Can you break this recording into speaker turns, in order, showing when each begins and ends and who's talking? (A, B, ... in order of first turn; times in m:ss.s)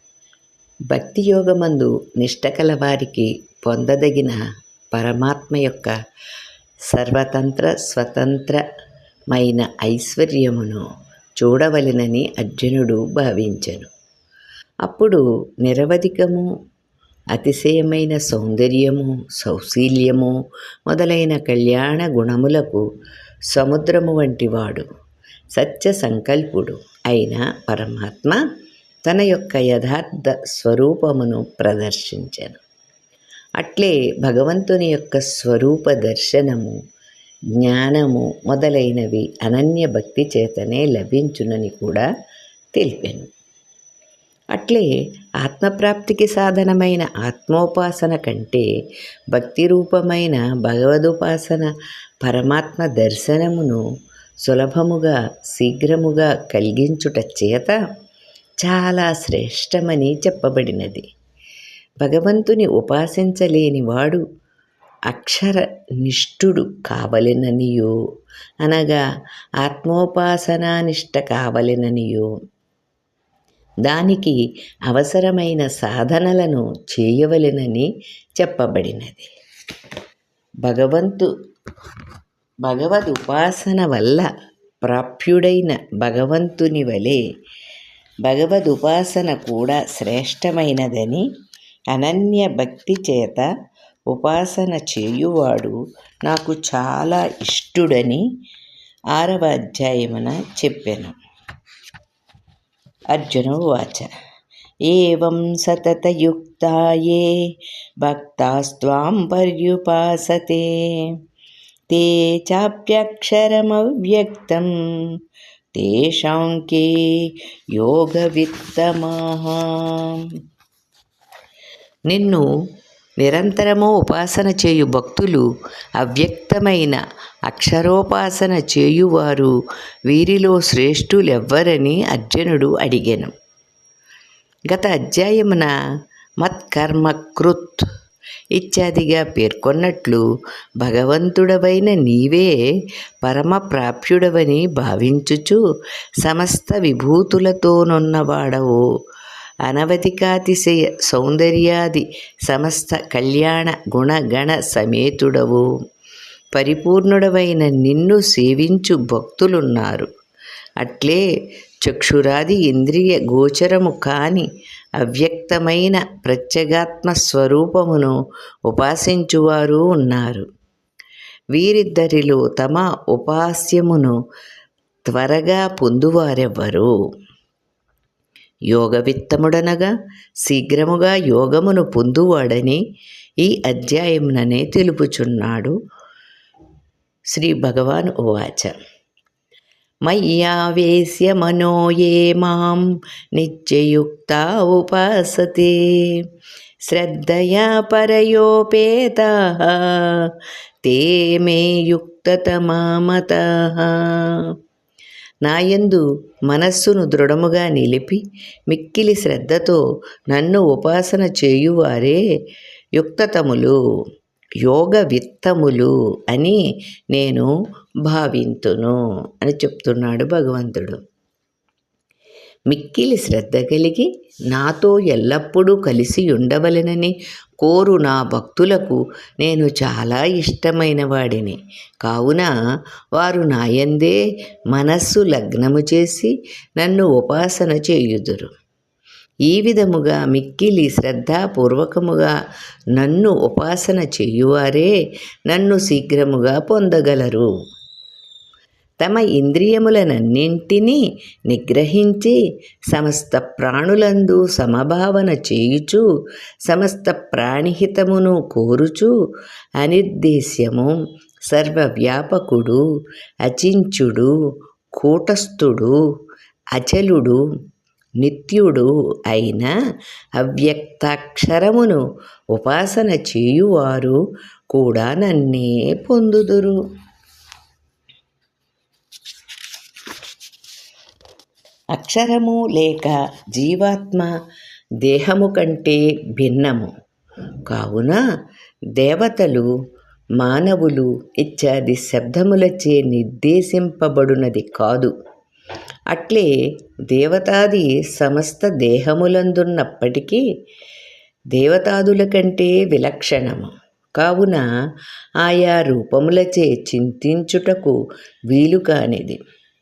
0:00.9-0:04.4 A
0:04.9-0:06.0 A
0:06.9-0:08.6 A
0:09.3-0:10.8 A
0:11.4-0:13.9 A
0:14.8-0:16.5 A
0:17.3-0:20.3 A
0:20.9-0:22.8 A
0:23.5-0:24.9 A
0:25.5-0:28.4 A
0:29.0-0:32.6 A
0:33.6-0:36.8 A
0:37.6-0:42.1 A
0:42.7-0:43.3 A
0:44.5-0:48.7 A
0:49.3-0:51.7 A
0:52.2-0:53.8 A
0:54.4-0:57.8 A
0:58.6-1:01.0 A
1:02.0-1:04.2 A
1:05.1-1:07.9 A
1:08.6-1:09.0 A
1:09.6-1:12.3 A
1:13.8-1:19.3 A
1:20.6-1:21.3 A
1:22.6-1:24.3 A
1:24.8-1:27.2 A
1:28.2-1:31.2 A
1:31.9-1:33.5 A
1:34.1-1:38.2 A
1:39.1-1:41.1 A
1:43.1-1:44.1 A
1:44.9-1:47.4 A
1:48.0-1:51.1 A
1:51.9-1:54.7 A
1:55.7-2:00.3 A
2:02.1-2:02.4 A
2:03.2-2:05.4 A
2:06.0-2:09.5 A
2:10.1-2:13.3 A
2:14.7-2:15.7 A
2:16.4-2:17.8 A
2:18.6-2:20.2 A
2:20.8-2:22.5 A
2:23.2-2:25.6 A
2:26.2-2:28.8 A
2:29.6-2:35.6 A
2:36.5-2:40.1 A
2:40.8-2:41.2 A
2:41.8-2:44.5 A
2:45.0-2:48.1 A
2:48.7-2:50.5 A
2:51.5-2:54.1 A
2:55.1-2:56.9 A
2:58.7-2:59.9 A
3:00.4-3:02.8 A
3:03.4-3:05.8 A
3:07.3-3:08.7 A
3:10.1-3:16.2 A
3:16.9-3:24.5 A
3:25.4-3:32.2 A
3:33.0-3:33.8 A
3:34.6-3:36.6 A
3:37.1-3:37.5 A
3:38.0-3:41.0 A
3:42.7-3:52.5 A
3:53.2-3:54.2 A
3:54.7-3:58.5 A
3:59.5-4:02.3 A
4:03.0-4:04.9 A
4:05.5-4:07.5 A
4:09.0-4:12.4 A
4:12.9-4:16.0 A
4:16.7-4:19.1 A
4:19.8-4:20.9 A
4:21.5-4:22.8 A
4:23.4-4:24.3 A
4:25.0-4:26.0 A
4:26.8-4:27.4 A
4:28.2-4:29.7 A
4:30.4-4:32.0 A
4:32.5-4:34.2 A
4:34.7-4:36.8 A
4:41.9-4:44.3 A
4:45.0-4:46.9 A
4:47.6-4:48.2 A
4:49.0-4:49.7 A
4:50.4-4:55.1 A
4:56.1-4:56.5 A
4:57.1-5:00.4 A
5:01.5-5:04.6 A
5:05.4-5:08.0 A
5:08.5-5:09.4 A